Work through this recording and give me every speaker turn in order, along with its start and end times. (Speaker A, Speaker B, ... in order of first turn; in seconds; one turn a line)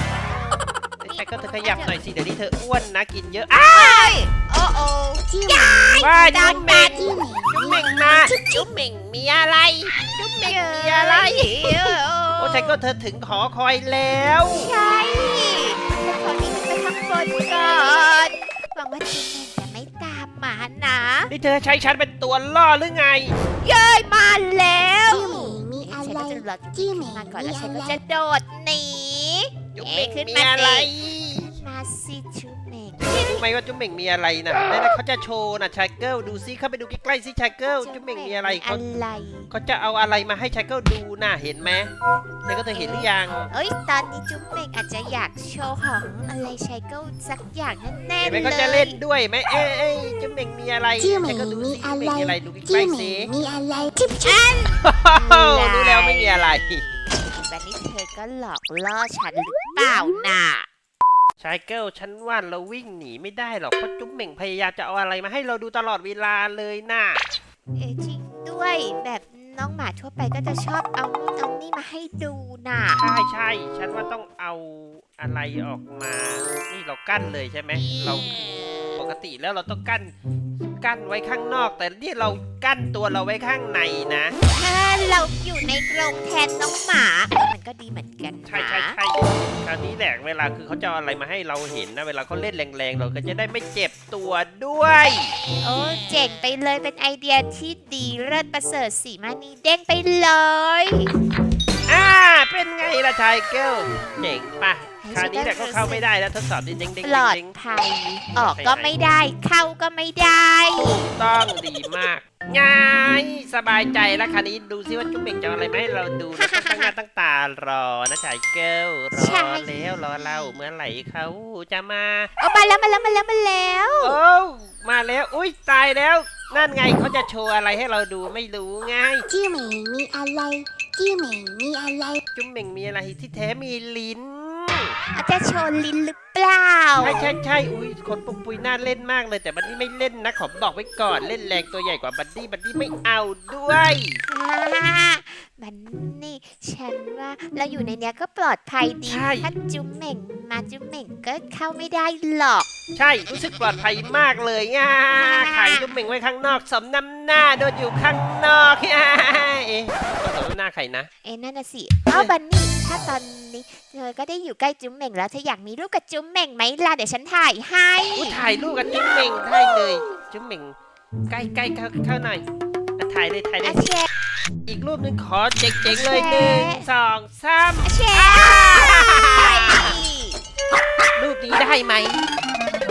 Speaker A: 0.3-2.1
Speaker B: 1.0-4.2
Speaker A: 3.6-7.1
Speaker C: 5.3-8.7
Speaker B: 6.0-14.7
Speaker A: 7.7-8.3
Speaker A: 10.3-12.8
Speaker A: 14.5-21.3
Speaker B: 21.3-23.4
Speaker A: 23.6-33.4
Speaker C: 25.1-28.0
Speaker B: 29.8-31.6
Speaker B: 33.0-38.8
Speaker A: 37.8-39.5
Speaker B: 39.5-41.9
Speaker B: 42.5-43.5
Speaker A: 42.6-49.0
Speaker B: 48.2-53.3
Speaker C: 51.0-54.4
Speaker A: 54.2-60.7
Speaker B: 54.8-56.9
Speaker B: 61.4-67.2
Speaker A: 67.8-73.0
Speaker B: 73.0-78.3
Speaker A: 77.7-79.0
Speaker B: 79.0-80.1
Speaker B: 80.7-84.4
Speaker A: 84.5-89.0
Speaker B: 88.5-95.3
Speaker A: 95.6-101.1
Speaker B: 101.9-107.5
Speaker A: 105.0-106.1
Speaker A: 107.0-111.0
Speaker B: 108.4-108.9
Speaker B: 110.8-122.3
Speaker A: 116.3-116.9
Speaker A: 119.1-120.6
Speaker A: 122.4-124.2
Speaker B: 124.0-129.3
Speaker C: 129.3-132.2
Speaker B: 132.3-134.9
Speaker A: 135.1-137.2
Speaker B: 137.0-144.2
Speaker A: 144.3-152.7
Speaker B: 149.1-149.5
Speaker B: 153.0-161.1
Speaker A: 155.1-155.9
Speaker A: 161.2-168.4
Speaker B: 168.2-170.8
Speaker B: 171.3-172.4
Speaker B: 173.0-173.8
Speaker A: 173.6-174.1
Speaker B: 174.7-180.0
Speaker A: 175.9-176.9
Speaker A: 177.8-180.4
Speaker B: 181.2-182.2